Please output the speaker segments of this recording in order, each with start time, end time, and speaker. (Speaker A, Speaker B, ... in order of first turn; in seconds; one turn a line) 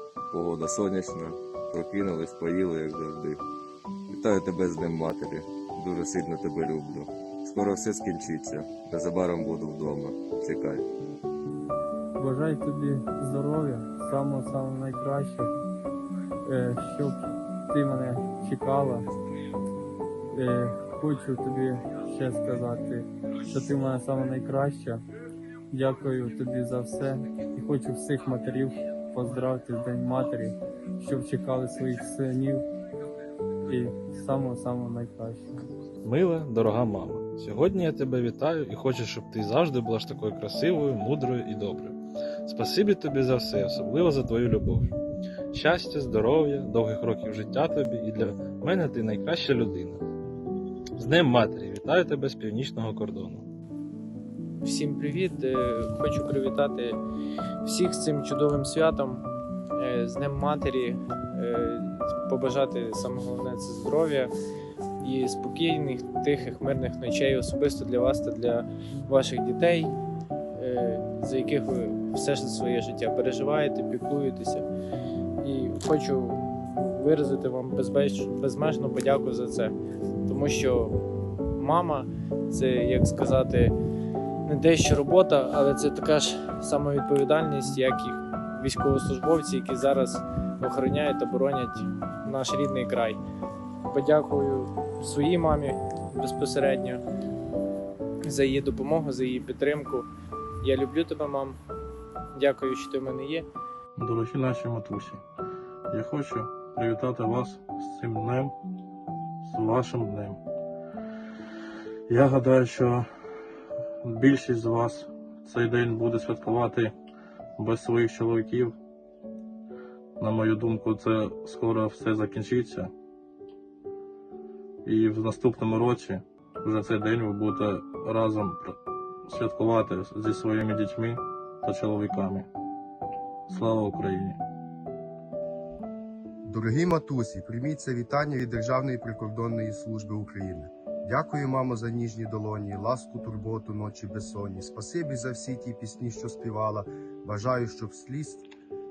Speaker A: 0.3-3.4
Speaker A: 4.1-10.9
Speaker B: 12.2-15.5
Speaker B: 16.4-19.0
Speaker B: 20.3-25.0
Speaker B: 25.7-32.6
Speaker B: 33.7-35.5
Speaker C: 36.0-41.9
Speaker C: 42.5-44.9
Speaker C: 45.5-50.0
Speaker C: 51.0-53.4
Speaker D: 54.6-57.0
Speaker D: 57.6-64.3
Speaker D: 65.0-70.0
Speaker D: 70.5-74.7
Speaker D: 75.4-79.7
Speaker D: 80.2-81.0
Speaker D: 81.6-83.7
Speaker D: 84.5-93.2
Speaker D: 93.9-97.0
Speaker D: 98.2-100.1
Speaker D: 100.6-101.6
Speaker D: 102.3-103.5
Speaker E: 104.0-105.2
Speaker E: 105.9-108.5
Speaker E: 109.4-110.4
Speaker E: 112.1-113.0
Speaker E: 114.0-116.9
Speaker E: 117.6-118.7
Speaker E: 120.2-122.9
Speaker E: 124.8-128.8
Speaker E: 129.3-132.5
Speaker E: 133.5-134.4
Speaker F: 136.4-148.4